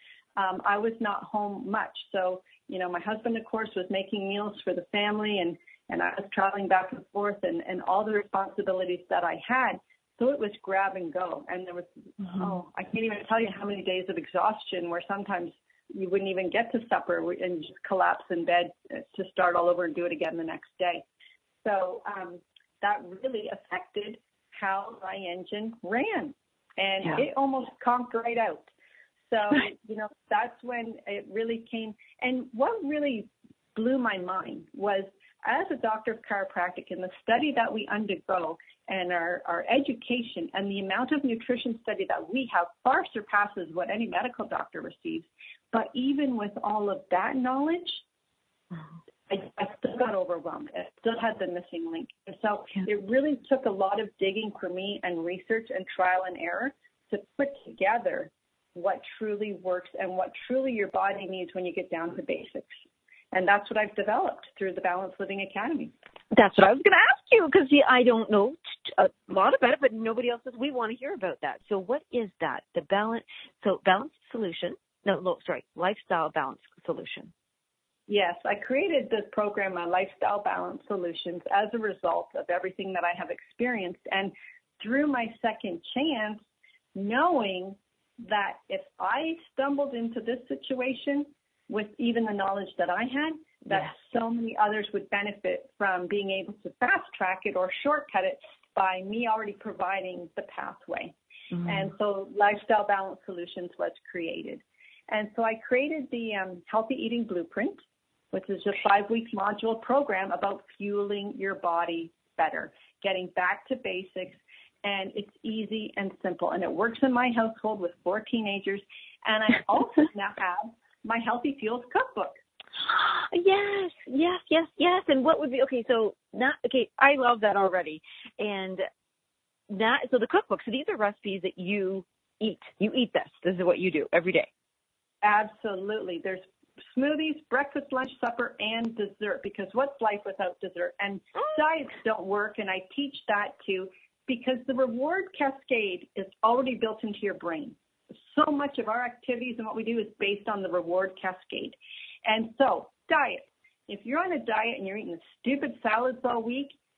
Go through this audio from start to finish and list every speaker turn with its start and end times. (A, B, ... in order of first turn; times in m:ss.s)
0:00.4-0:21.0 A
0:21.6-0:28.7 A
0:29.3-0:48.0 A
0:49.3-1:02.7 A
1:03.3-1:05.9 A
1:06.3-1:17.3 B
1:18.1-1:26.4 A
1:27.0-1:47.8 A
1:33.7-1:34.0 B
1:41.5-1:41.9 B
1:48.3-2:02.4 A
2:02.8-2:08.9 B
2:09.7-2:14.5 B
2:15.2-2:27.8 A
2:28.3-2:36.8 A